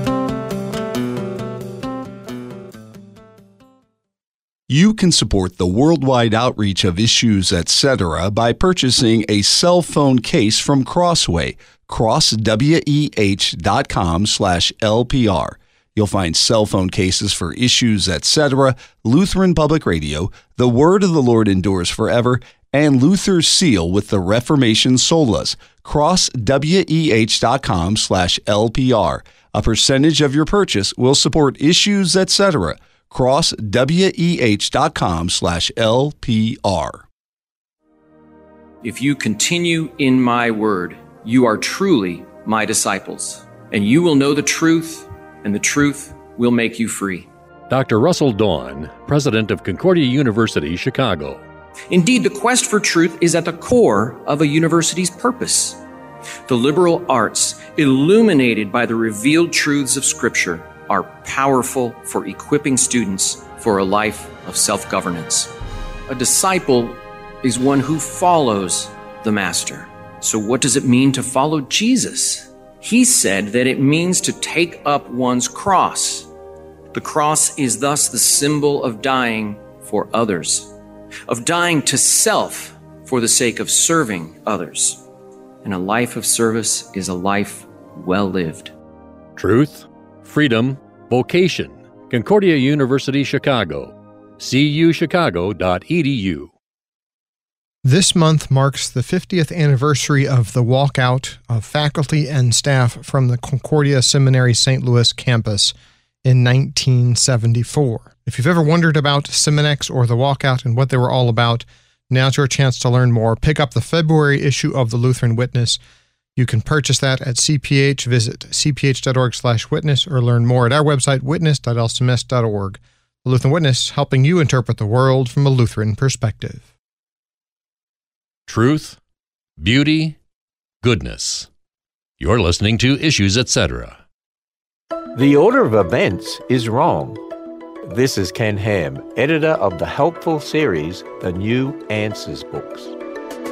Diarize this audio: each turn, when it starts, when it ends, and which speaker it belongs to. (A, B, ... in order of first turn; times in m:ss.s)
0:04.7-0:37.0 A
0:38.8-0:47.3 B
0:47.7-0:51.4 C
0:51.9-0:55.8 B
0:56.5-1:05.5 B
1:06.1-1:16.3 B
1:16.9-1:20.7 B
1:21.3-1:25.0 B
1:25.6-1:28.7 B
1:29.4-1:36.5 C
1:37.8-1:45.7 D
1:46.2-1:55.8 D
1:56.4-2:06.7 D
2:08.5-2:09.0 C
2:09.6-2:10.2 C
2:10.8-2:11.5 C
2:12.2-2:14.0 C
2:15.1-2:17.2 E
2:17.8-2:23.0 E